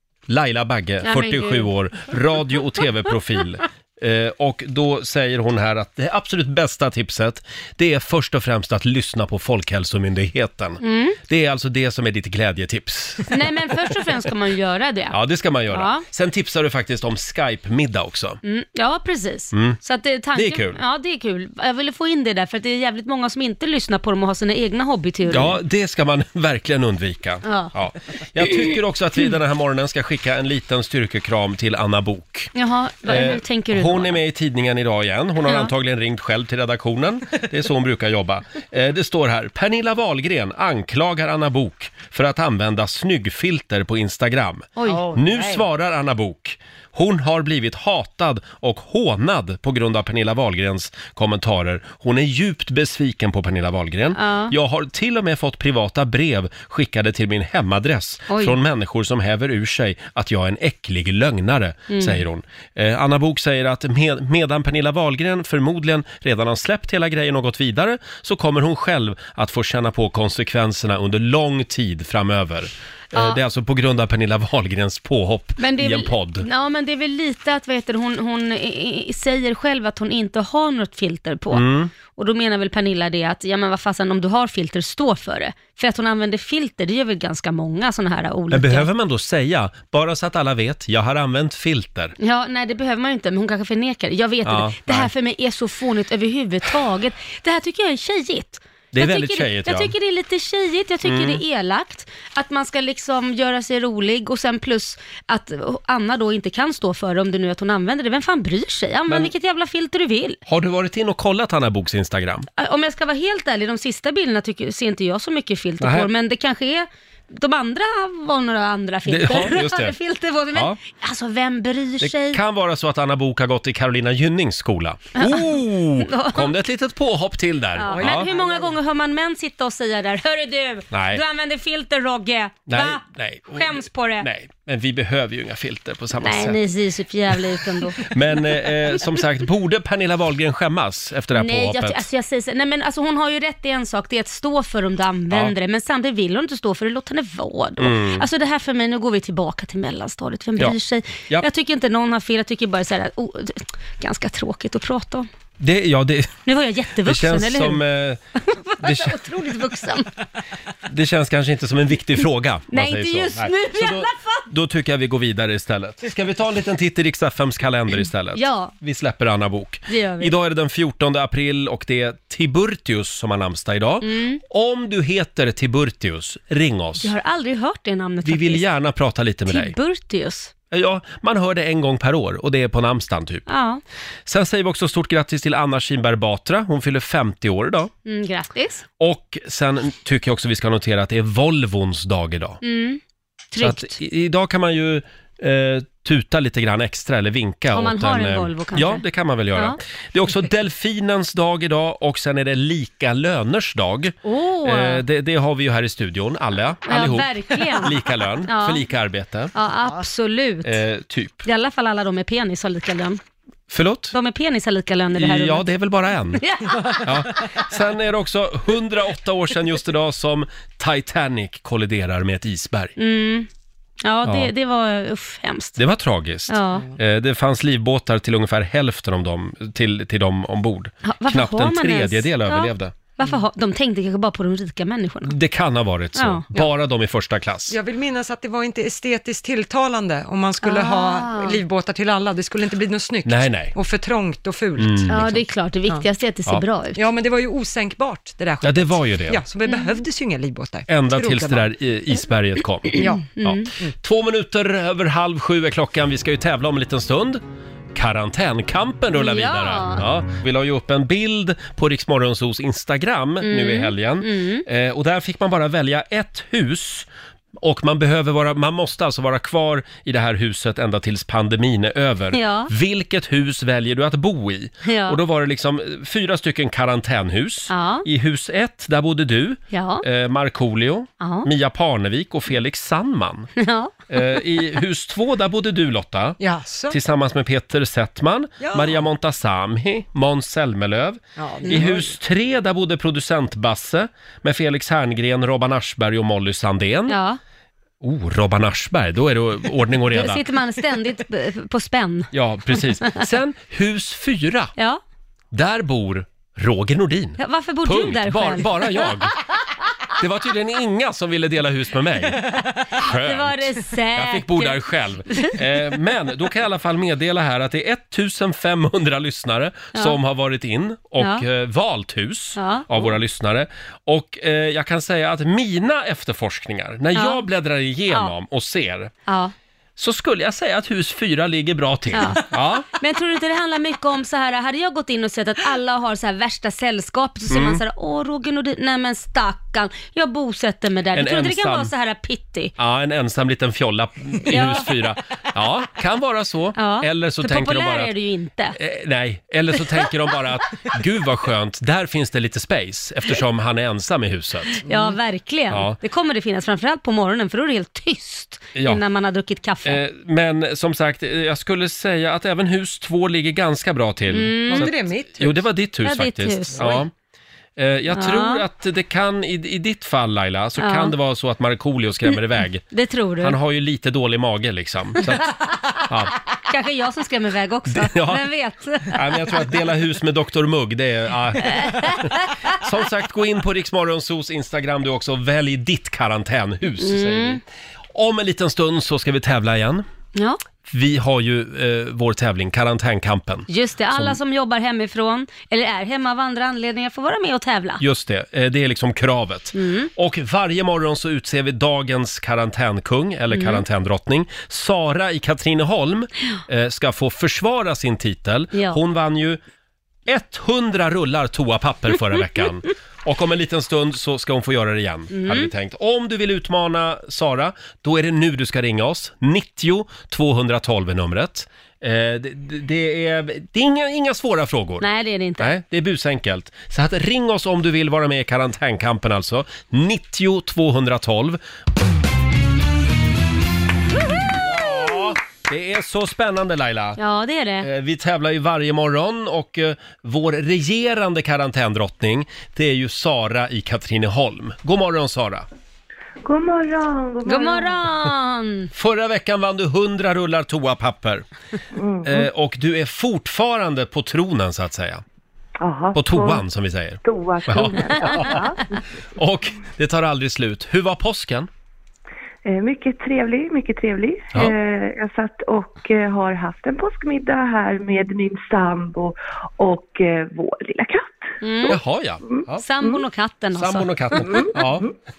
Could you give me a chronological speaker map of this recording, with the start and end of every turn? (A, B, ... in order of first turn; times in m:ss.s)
0:00.3-0:13.5 A
0:01.0-0:01.7 B
0:10.8-0:11.2 B
0:13.3-0:15.2 B
0:15.1-0:18.4 A
0:15.7-0:16.0 B
0:18.4-0:25.6 B
0:19.5-0:19.8 A
0:20.3-0:20.8 A
0:25.3-0:32.5 A
0:27.4-0:27.7 B
0:32.5-0:34.2 B
0:33.0-1:16.4 A
0:35.4-0:35.7 B
0:44.8-0:45.1 B
0:44.9-0:45.4 C
0:54.1-0:54.5 B
0:58.3-0:58.6 B
1:01.9-1:02.2 B
1:13.1-1:13.4 B
1:15.6-1:28.9 B
1:21.5-1:21.9 A
1:28.5-1:32.1 A
1:32.2-1:50.4 B
1:34.4-1:35.1 A
1:38.9-1:39.9 A
1:41.0-1:41.4 A
1:50.5-1:52.5 A
1:52.6-2:02.4 B
1:55.8-1:56.1 A
1:59.1-2:00.0 A
2:00.5-2:00.8 A
2:02.0-2:08.3 A
2:05.2-2:06.5 B
2:07.8-2:14.3 B
2:07.9-2:08.7 C
2:10.9-2:11.2 A
2:12.7-2:16.6 A
2:16.2-2:18.1 B
2:18.0-2:22.0 A
2:21.4-2:35.3 B
2:27.8-2:28.2 A
2:35.6-2:36.4 A
2:36.4-2:37.8 B
2:37.0-2:38.2 A
2:38.4-2:40.1 B
2:38.8-2:39.2 A
2:40.9-2:57.1 A
2:42.7-2:44.5 B
2:48.3-2:48.7 B
2:49.9-2:50.3 B
2:54.0-2:54.4 B
2:57.0-2:58.6 B
2:58.2-2:59.7 A
2:59.5-3:00.5 B
3:00.7-3:03.5 A
3:03.5-3:03.8 B
3:04.3-3:07.9 A
3:08.0-3:08.8 B
3:09.0-3:12.6 A
3:12.6-3:13.0 B
3:13.5-3:13.9 B
3:13.6-3:29.5 A
3:17.7-3:19.0 B
3:24.2-3:25.0 B
3:26.8-3:28.8 B
3:29.5-3:30.8 B
3:30.6-3:31.4 A
3:31.4-3:33.2 B
3:33.7-3:34.1 A
3:34.1-3:35.6 B
3:35.1-3:36.4 A
3:36.4-3:37.1 B
3:37.0-3:42.9 A
3:43.0-3:43.5 B
3:44.0-3:45.8 B
3:44.2-3:44.5 A
3:45.8-3:52.9 A
3:46.5-3:46.9 B
3:51.0-3:55.3 B
3:55.2-3:57.8 A
3:56.2-3:56.5 B
3:57.7-4:05.3 C
4:00.6-4:01.6 B
4:03.2-4:03.7 A
4:04.8-4:05.3 A
4:05.1-4:07.0 B
4:07.0-4:11.7 C
4:08.6-4:09.4 A
4:09.7-4:10.0 B
4:10.9-4:17.4 A
4:13.0-4:13.2 C
4:13.0-4:13.7 B
4:17.9-4:43.5 A
4:19.1-4:20.0 B
4:23.4-4:24.6 B
4:32.3-4:32.7 B
4:34.8-4:35.2 B
4:37.7-4:38.1 B
4:39.7-4:40.0 B
4:41.2-4:41.5 B
4:43.6-4:44.4 B
4:44.1-4:57.2 A
4:46.4-4:47.0 C
4:48.6-4:49.0 C
4:51.4-4:52.1 C
4:57.1-4:57.4 B
4:58.0-5:00.4 A
5:00.1-5:03.2 B
5:02.3-5:04.7 A
5:05.5-5:09.4 A
5:07.4-5:09.1 B
5:10.2-5:29.1 A
5:12.5-5:15.6 B
5:21.2-5:21.4 B
5:22.6-5:23.1 B
5:27.1-5:27.4 B
5:29.3-5:29.5 B
5:30.0-5:32.9 A
5:32.1-5:42.7 B
5:37.5-5:37.8 A
5:41.1-5:41.9 A
5:42.8-5:48.1 A
5:44.4-5:45.0 B
5:46.8-5:48.8 B
5:48.8-5:54.8 A
5:54.8-6:00.0 B
5:54.8-5:55.2 C
5:55.7-5:56.0 A
5:59.8-6:07.1 A
6:04.3-6:04.9 B
6:04.7-6:05.7 C
6:06.0-6:07.0 B
6:07.8-6:12.9 A
6:08.1-6:08.6 B
6:10.8-6:11.1 B
6:12.9-6:13.6 B
6:13.4-6:16.4 A
6:15.3-6:19.3 B
6:17.9-6:18.4 A
6:19.1-6:27.6 A
6:21.6-6:22.5 B
6:27.0-6:27.6 B
6:28.1-6:30.0 A
6:30.3-6:30.6 B
6:30.9-6:34.4 A
6:33.7-6:38.0 B
6:38.0-6:49.6 A
6:39.7-6:40.1 B
6:43.5-6:43.8 B
6:48.7-6:49.0 B
6:50.3-7:05.0 A
6:55.3-6:55.7 B
7:05.0-7:05.7 B
7:05.6-7:11.6 A
7:14.6-7:17.2 A
7:17.2-7:17.9 B
7:17.8-7:25.6 A
7:26.4-7:28.0 D
7:27.4-7:28.9 B
7:28.9-7:31.4 A
7:32.0-7:32.5 D
7:32.2-7:35.2 A
7:35.8-7:36.6 D
7:36.1-7:38.8 A
7:37.2-7:39.0 D
7:39.4-7:41.7 A
7:42.6-7:51.9 D
7:51.6-7:52.0 B
7:51.9-7:52.8 A
7:52.8-7:54.1 B
7:53.7-7:55.1 A
7:54.5-7:55.0 D